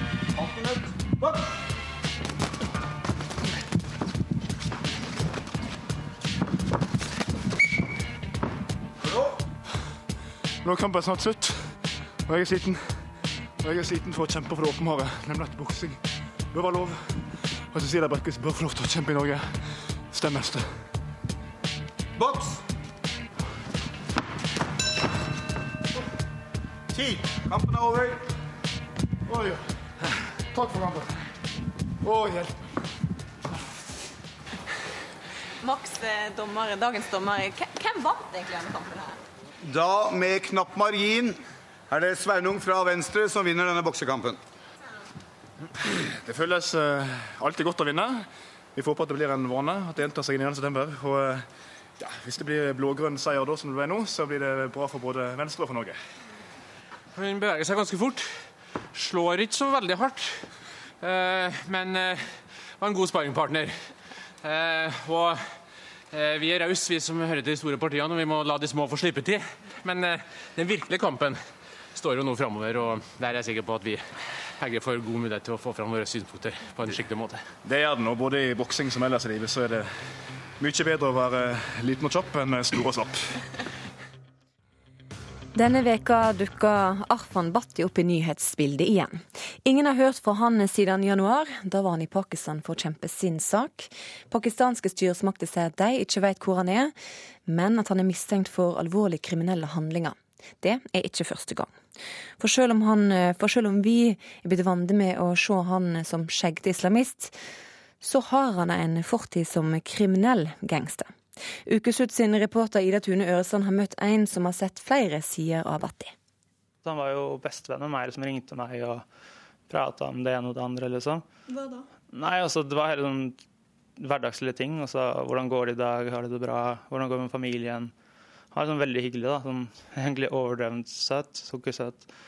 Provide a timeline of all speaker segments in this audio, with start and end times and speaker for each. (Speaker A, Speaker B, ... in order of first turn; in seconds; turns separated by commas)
Speaker A: 0.3-1.5, Speaker A: 9.0-9.4, Speaker B: 10.6-13.1, Speaker B: 13.6-16.0, Speaker B: 16.5-20.8, Speaker A: 22.1-22.6, Speaker A: 26.9-28.2, Speaker B: 32.1-32.5, Speaker A: 39.6-41.4, Speaker A: 41.9-44.4, Speaker B: 46.2-51.4, Speaker B: 52.0-56.0, Speaker C: 57.1-58.4, Speaker C: 58.9-65.4, Speaker C: 66.1-71.4, Speaker C: 71.9-77.4, Speaker B: 77.6-79.9, Speaker B: 80.6-83.4, Speaker D: 85.5-96.9, Speaker D: 97.5-101.7, Speaker D: 102.4-107.3, Speaker D: 108.0-111.1, Speaker D: 111.7-116.1, Speaker E: 116.8-119.0, Speaker E: 119.7-121.2, Speaker E: 122.1-123.4, Speaker E: 124.0-127.9, Speaker E: 128.5-132.1